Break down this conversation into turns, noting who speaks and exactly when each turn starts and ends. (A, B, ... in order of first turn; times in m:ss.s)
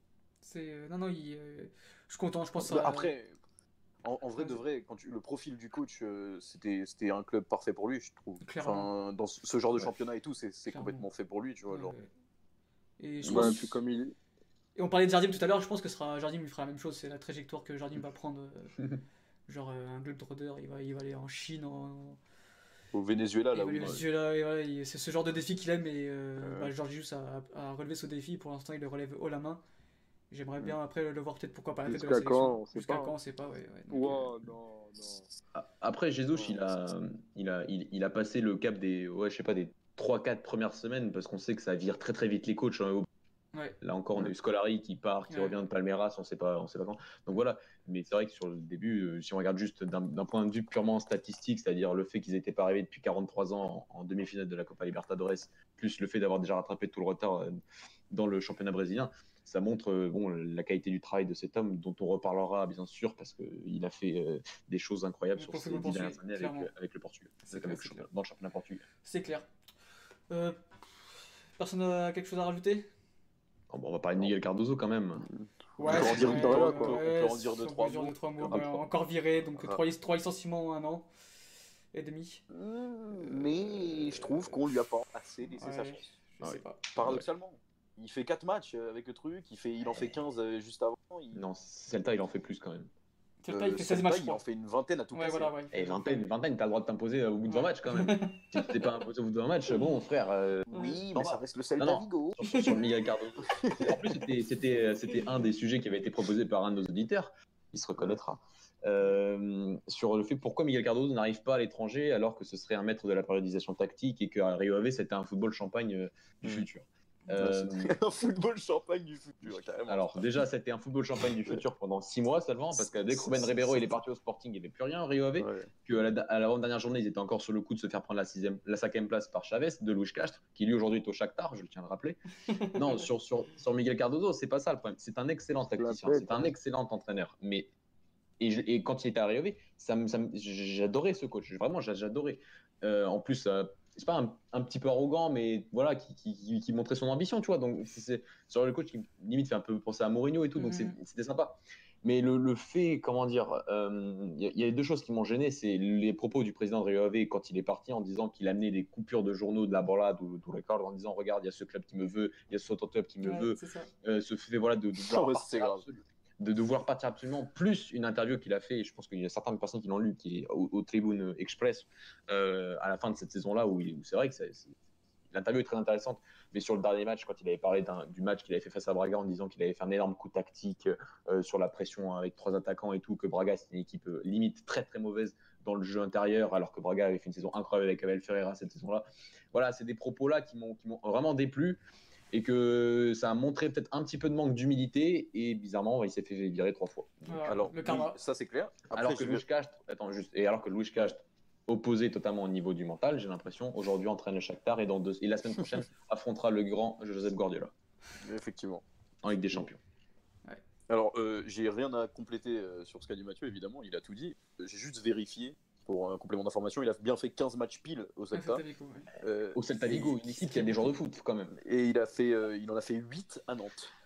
0:00.4-0:03.1 A
0:02.6-0:03.3 B
0:04.0-0:11.9 B
0:08.4-0:08.9 A
0:10.7-0:11.1 A
0:11.7-0:12.1 A
0:13.0-0:13.6 A
0:13.3-0:13.5 C
0:13.3-0:14.1 D
0:14.8-0:18.8 A
0:19.5-0:22.2 A
0:22.9-0:24.0 B
0:23.5-0:29.6 A
0:26.4-0:26.7 B
0:30.3-0:34.3 A
0:31.8-0:33.1 D
0:33.9-0:35.2 D
0:35.5-0:43.1 C
0:43.8-0:57.6 C
0:45.3-0:45.6 A
0:58.1-1:08.8 C
1:05.3-1:06.7 A
1:07.4-1:08.1 A
1:09.0-1:09.5 A
1:10.3-1:12.9 A
1:13.7-1:15.3 C
1:15.2-1:18.8 B
1:15.8-1:21.1 A
1:15.8-1:17.0 C
1:21.9-1:22.4 A
1:22.5-1:26.1 B
1:23.2-1:24.6 A
1:25.4-1:26.8 A
1:26.4-1:27.2 C
1:26.9-1:31.4 B
1:31.3-1:32.9 C
1:33.4-1:34.4 A
1:33.5-1:35.5 B
1:35.1-1:36.3 A
1:35.7-1:57.9 C
1:37.5-1:38.4 A
1:40.7-1:42.6 B
1:40.7-1:41.0 A
1:42.4-1:42.8 A
1:43.4-1:44.0 B
1:57.4-2:00.3 B
1:59.5-2:12.2 C
2:03.1-2:03.9 B
2:05.4-2:05.7 B
2:12.5-2:12.8 A
2:12.7-2:17.7 C
2:15.7-2:16.5 D
2:18.4-2:54.7 C
2:30.6-2:31.0 A
2:43.2-2:43.9 A
2:45.0-2:45.9 B
2:55.3-3:17.5 C
3:17.3-3:18.2 A
3:17.4-3:19.4 B
3:18.9-3:27.7 C
3:28.2-3:28.8 B
3:29.2-3:29.8 C
3:30.9-3:38.6 B
3:38.3-3:39.1 A
3:39.2-3:40.8 B
3:39.5-3:41.6 C
3:41.6-3:43.9 B